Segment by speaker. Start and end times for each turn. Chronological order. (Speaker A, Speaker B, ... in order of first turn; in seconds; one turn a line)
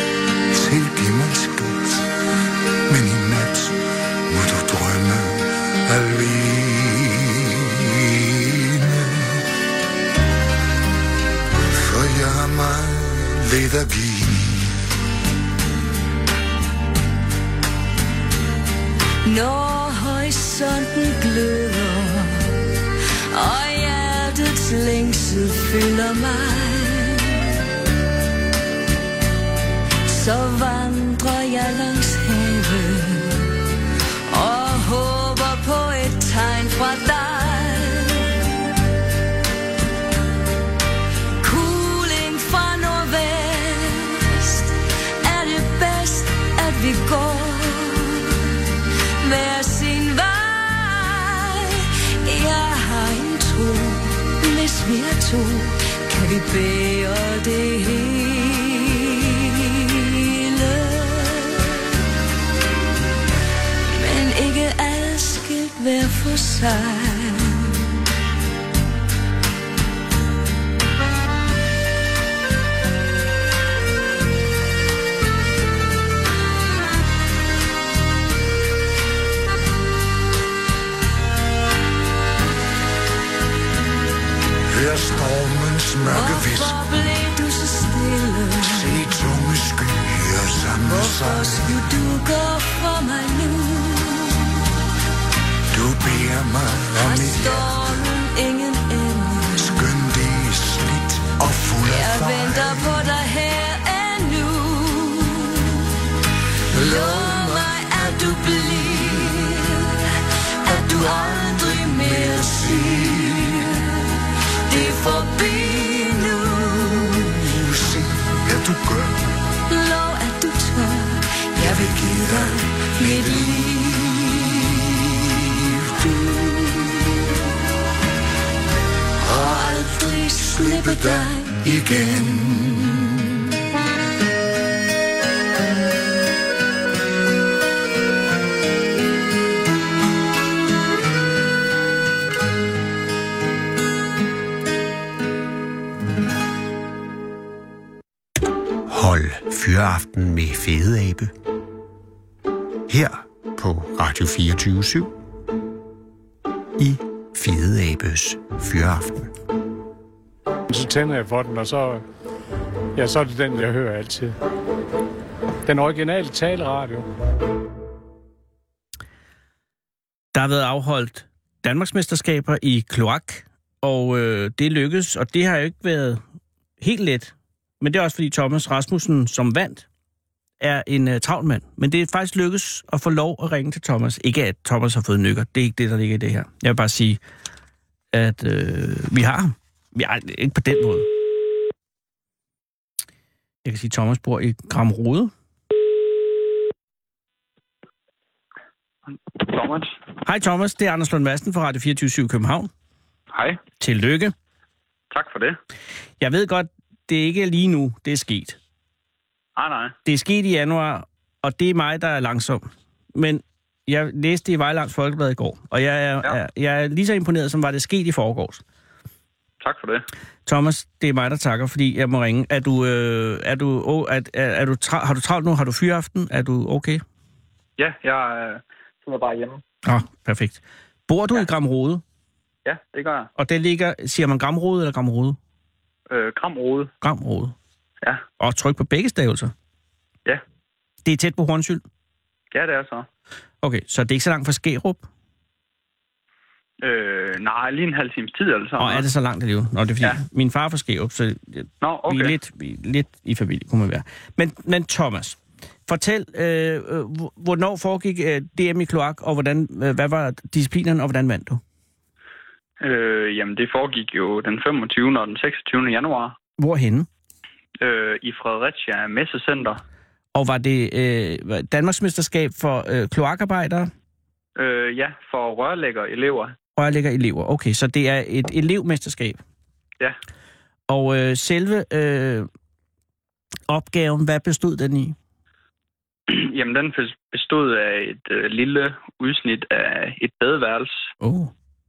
Speaker A: 0.5-2.1
Speaker A: 2.9-9.4
Speaker A: 11.7-14.7
Speaker B: 19.2-22.6
Speaker B: 23.3-27.6
Speaker B: 30.1-33.6
Speaker B: 34.3-38.4
Speaker B: 41.4-48.4
Speaker B: 49.2-61.9
Speaker B: 63.9-67.8
Speaker A: 84.7-86.8
Speaker B: 86.0-89.0
Speaker A: 88.6-91.7
Speaker B: 90.8-94.5
Speaker A: 95.7-97.9
Speaker B: 97.0-99.8
Speaker A: 99.6-103.0
Speaker B: 101.8-105.8
Speaker A: 106.7-109.2
Speaker B: 106.7-109.9
Speaker B: 110.6-114.0
Speaker A: 110.7-113.7
Speaker B: 114.7-117.1
Speaker A: 117.1-119.3
Speaker B: 119.7-124.7
Speaker A: 121.6-124.2
Speaker A: 125.2-126.0
Speaker B: 126.0-126.9
Speaker A: 129.2-133.1
Speaker B: 129.3-132.2
Speaker C: 148.9-151.3
Speaker C: 152.9-155.1
Speaker C: 156.8-159.3
Speaker D: 160.7-162.0
Speaker D: 162.9-164.3
Speaker D: 165.7-167.1
Speaker E: 170.3-176.2
Speaker E: 176.8-179.8
Speaker E: 180.6-187.2
Speaker E: 188.1-191.1
Speaker E: 193.6-195.3
Speaker F: 199.3-199.9
Speaker E: 200.2-202.7
Speaker F: 203.3-203.6
Speaker E: 203.8-204.3
Speaker F: 205.1-205.6
Speaker E: 206.2-208.6
Speaker F: 209.6-209.9
Speaker E: 210.1-218.6
Speaker F: 219.6-220.1
Speaker E: 220.4-227.0
Speaker F: 227.8-229.6
Speaker E: 229.8-232.0
Speaker F: 232.6-233.3
Speaker E: 233.4-235.4
Speaker F: 236.1-236.9
Speaker E: 237.0-237.6
Speaker E: 238.4-239.5
Speaker E: 241.0-241.8
Speaker F: 242.5-243.1
Speaker E: 243.6-245.0
Speaker F: 246.8-249.0
Speaker E: 248.8-261.6
Speaker F: 251.8-252.3
Speaker F: 262.8-266.3
Speaker E: 266.6-267.1
Speaker F: 267.8-269.8
Speaker E: 270.3-273.9
Speaker F: 274.6-276.5
Speaker E: 276.8-279.4
Speaker E: 280.9-282.5
Speaker E: 283.7-285.1
Speaker F: 286.3-291.1
Speaker E: 291.2-291.5